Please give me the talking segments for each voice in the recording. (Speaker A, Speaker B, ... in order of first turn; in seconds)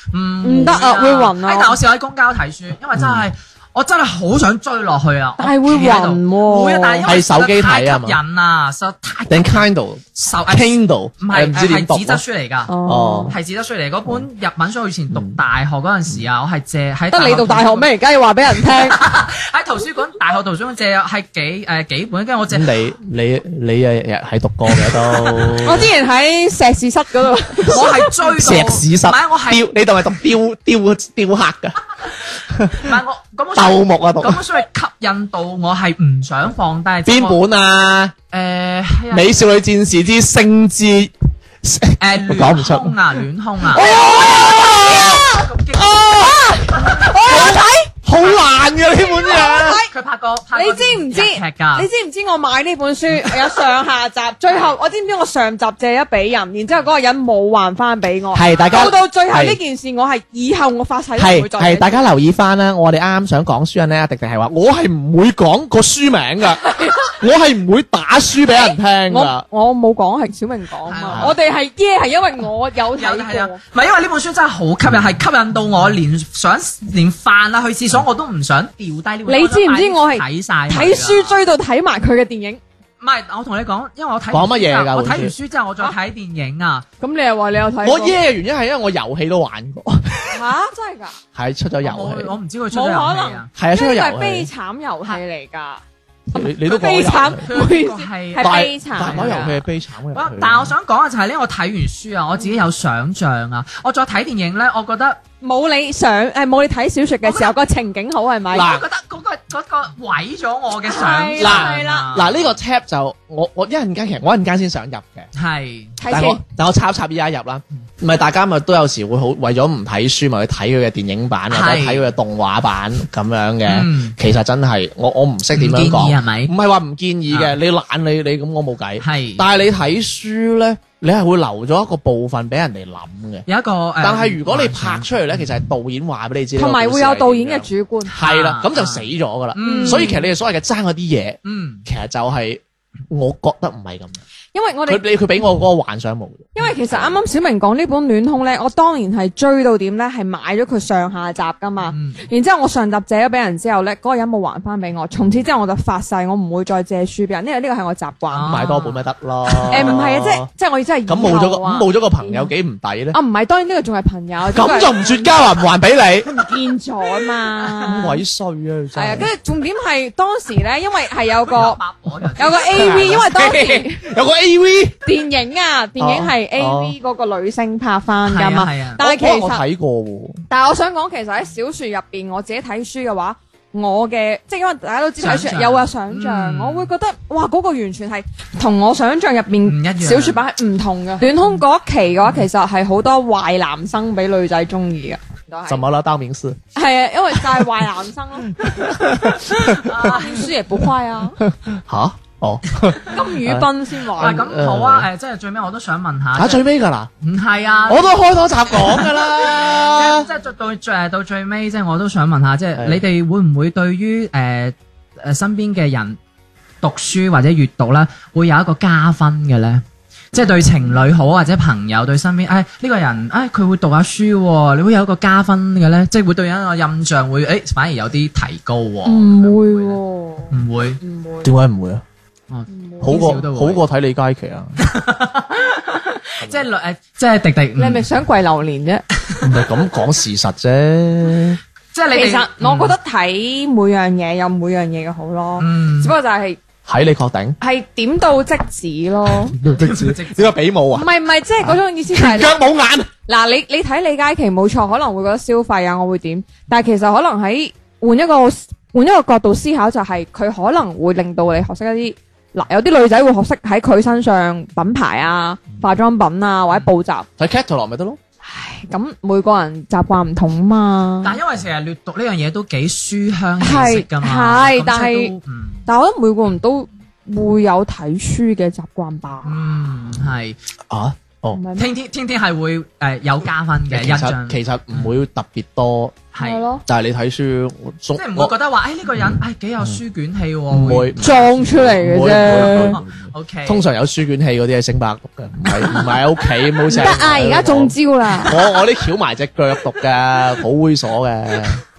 Speaker A: 0.1-9.7, 10.2-12.7, 13.3-17.9, 18.6-22.7, 24.8-25.6, 27.7-29.7, 32.7-37.4, 38.3-39.4, 42.0-46.9, 49.9-51.9, 70.9-71.3, 72.9-81.4, 83.0-86.9, 91.8-93.5, 97.5-99.6, 100.1-105.2, 107.2-107.5, 108.5-112.6, 115.4-116.0, 121.5-122.1, 123.7-124.2, 125.5-126.5, 127.3-127.5, 129.0-129.4, 133.5-135.5, 138.2-140.1, 141.4-141.8, 151.9-152.2, 158.3-159.0, 171.4-173.1, 178.3-179.0, 185.2-186.9, 189.6-190.4, 199.6-200.4, 204.2-206.6, 207.2-208.1, 208.7-216.2, 216.8-230.0, 230.5-231.0, 232.5-233.8, 234.8-238.1, 241.9-242.9, 245.6-246.1, 249.6-250.6, 271.2-275.9, 279.4-280.6, 281.8-285.1, 286.4-286.6, 288.1-291.1, 292.5-293.8
Speaker B: 0.4-1.8, 5.4-7.1, 12.7-13.3, 17.1-19.0, 25.6-28.1, 43.8-45.4, 46.1-47.9, 49.0-49.9, 50.5-62.0, 68.5-73.6, 79.2-82.6, 87.0-88.2, 90.3-91.2, 92.7-95.8, 96.3-99.4, 105.4-108.7, 110.9-112.1, 116.0-116.4, 136.6-138.1, 139.6-140.3, 144.5-145.1, 146.6-158.5, 159.7-162.5, 163.1-165.3, 166.2-168.2, 168.9-171.8, 172.4-174.1, 175.0-179.6, 180.5-195.8, 196.8-199.0, 199.9-201.4, 203.1-204.4, 229.1-231.5, 232.7-233.4, 237.8-239.0, 242.1-246.6, 247.6-249.6, 250.9-252.6, 253.3-267.3, 268.4-271.4, 273.6-275.3, 275.9-279.6, 281.5-281.9, 286.4-286.8, 291.2-293.0, 296.9-298.6
Speaker C: 3.0-3.2, 7.0-8.2, 9.3-12.2, 12.9-13.4, 15.1-15.4, 22.5-25.9, 28.2-31.8, 32.4-33.0, 33.5-34.4, 37.0-38.1, 39.1-43.0, 43.7-49.8, 58.3-59.6, 61.2-69.4, 84.3-85.3, 87.8-90.4, 91.3-92.4, 93.5-94.5, 96.3-97.5, 98.4-100.7, 108.5-108.8, 111.4-115.3, 116.1-133.4, 134.0-144.2, 144.9-147.2, 158.4-160.5, 161.1-163.2, 164.5-166.3, 167.8-169.3, 172.7-174.9, 176.0-176.9, 179.0-180.4, 195.7-196.6, 198.6-200.1, 201.4-205.1, 206.3-207.1, 207.9-210.3, 212.8-213.0, 231.4-232.0, 233.0-234.8, 236.4-236.7, 239.4-241.6, 246.8-247.6, 249.5-251.1, 251.6-253.1, 267.4-268.2, 280.9-281.6, 283.9-286.2, 286.9-288.5, 289.1-290.0, 290.7-301.8